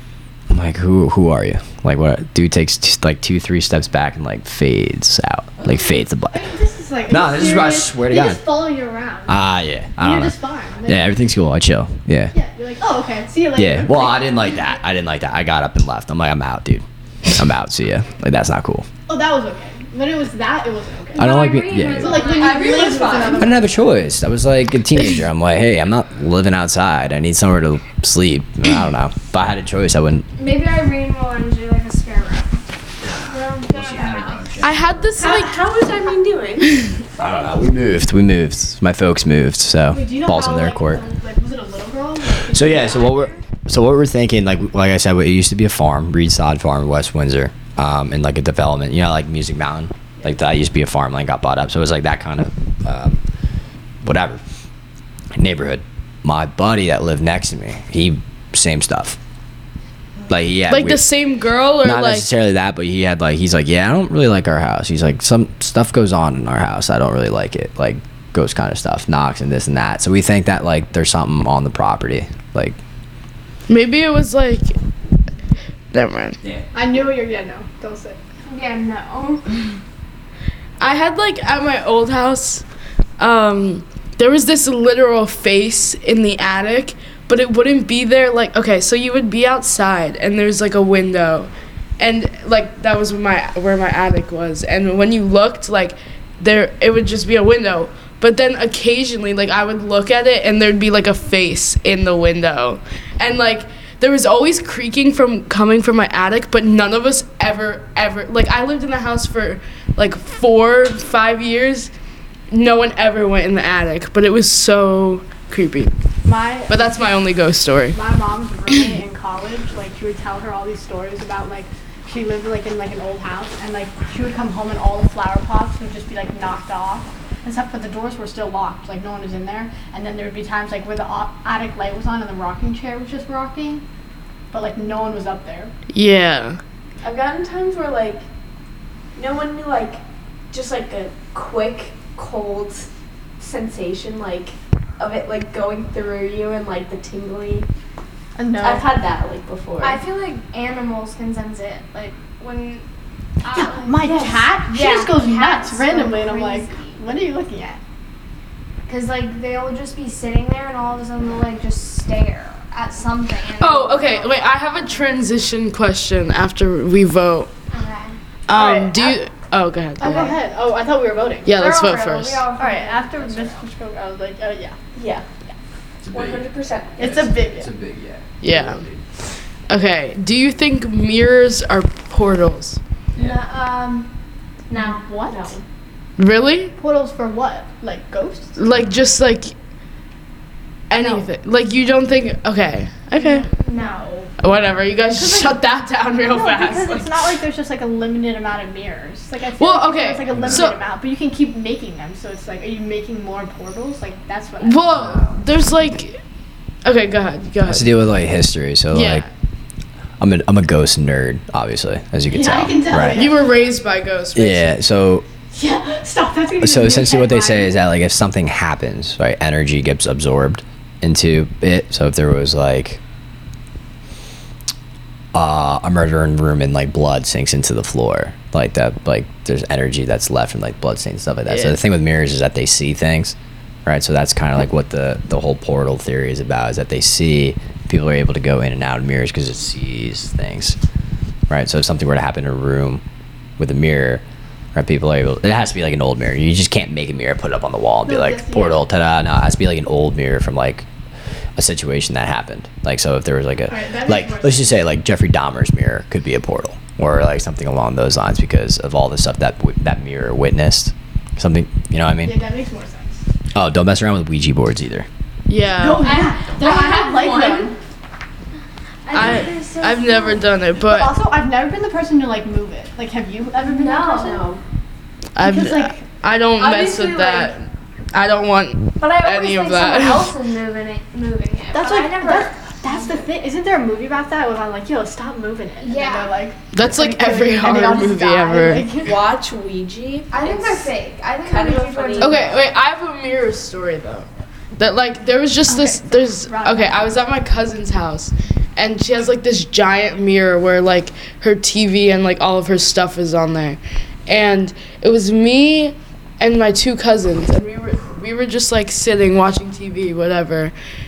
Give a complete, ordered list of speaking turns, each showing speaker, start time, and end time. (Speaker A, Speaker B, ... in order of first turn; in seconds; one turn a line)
Speaker A: 0.5-6.5
Speaker B: 6.3-9.3
Speaker A: 7.1-8.4
Speaker A: 9.3-10.3
Speaker B: 10.0-11.1
Speaker A: 10.8-12.3
Speaker B: 12.3-14.7
Speaker A: 13.5-18.9
Speaker B: 19.1-21.4
Speaker C: 21.1-22.8
Speaker A: 21.1-22.3
Speaker B: 21.9-23.8
Speaker D: 22.2-23.6
Speaker A: 23.3-30.2
Speaker C: 30.4-32.6
Speaker A: 33.0-35.1
Speaker C: 33.2-34.7
Speaker E: 34.6-35.6
Speaker D: 35.1-37.2
Speaker A: 37.2-41.0
Speaker B: 39.9-43.3
Speaker A: 42.5-53.2
Speaker A: 54.0-54.4
Speaker A: 55.4-59.2
Speaker A: 60.3-61.0
Speaker E: 60.7-62.3
Speaker A: 61.8-72.8
Speaker E: 73.7-74.7
Speaker E: 75.9-76.4
Speaker B: 76.7-78.2
Speaker C: 78.5-79.6
Speaker E: 80.8-82.6
Speaker E: 83.2-111.9
Speaker E: 112.5-115.9
Speaker B: 116.2-117.0
Speaker E: 116.7-118.0
Speaker B: 117.9-133.8
Speaker B: 134.5-135.7
Speaker E: 135.9-136.6
Speaker D: 137.0-138.2
Speaker D: 139.1-140.0
Speaker D: 140.5-142.9
Speaker D: 143.4-147.7
Speaker B: 148.3-148.9
Speaker D: 148.6-150.0
Speaker C: 149.8-152.8
Speaker C: 153.4-157.0
Speaker B: 153.5-157.8
Speaker C: 158.9-164.6
Speaker E: 163.6-167.5
Speaker C: 167.7-168.2
Speaker E: 168.5-170.4
Speaker B: 168.5-169.2
Speaker B: 170.0-171.7
Speaker E: 171.4-172.4
Speaker C: 171.5-173.6
Speaker B: 172.5-174.8
Speaker D: 174.9-175.2
Speaker A: 176.0-179.0
Speaker D: 176.1-177.2
Speaker B: 177.0-177.7
Speaker E: 178.4-178.8
Speaker E: 179.7-182.8
Speaker C: 183.2-184.1
Speaker C: 184.7-185.0
Speaker B: 184.7-185.6
Speaker E: 186.2-186.7
Speaker B: 186.8-188.6
Speaker E: 188.6-189.5
Speaker E: 190.9-193.5
Speaker B: 190.9-191.2
Speaker B: 193.2-194.3
Speaker C: 193.5-194.0
Speaker E: 194.4-197.1
Speaker B: 195.1-195.6
Speaker B: 196.2-205.2
Speaker E: 199.6-200.8
Speaker A: 200.3-200.7
Speaker E: 204.6-206.2
Speaker E: 206.8-207.9
Speaker A: 207.6-209.2
Speaker E: 208.9-209.3
Speaker A: 210.2-213.3
Speaker B: 212.3-213.7
Speaker E: 212.9-214.7
Speaker A: 214.3-215.2
Speaker B: 215.5-217.7
Speaker A: 216.6-223.0
Speaker A: 225.3-240.8
Speaker A: 241.5-243.0
Speaker A: 243.6-250.9
Speaker B: 248.0-248.8
Speaker A: 251.6-262.4
Speaker B: 253.7-254.8
Speaker B: 262.2-263.2
Speaker A: 263.5-265.1
Speaker E: 265.5-266.2
Speaker B: 265.7-267.8
Speaker D: 266.0-267.7
Speaker C: 266.1-267.5
Speaker C: 269.1-270.4
Speaker E: 269.1-271.1
Speaker B: 270.8-274.5
Speaker C: 273.6-274.4
Speaker D: 274.1-274.6
Speaker E: 275.3-280.3
Speaker B: 275.4-276.0
Speaker D: 276.6-277.4
Speaker C: 279.0-283.2
Speaker B: 281.7-289.2
Speaker C: 285.8-286.3
Speaker E: 286.7-288.9
Speaker D: 289.0-290.9
Speaker C: 290.3-292.6
Speaker D: 291.4-292.6
Speaker E: 292.2-310.7
Speaker B: 295.7-297.2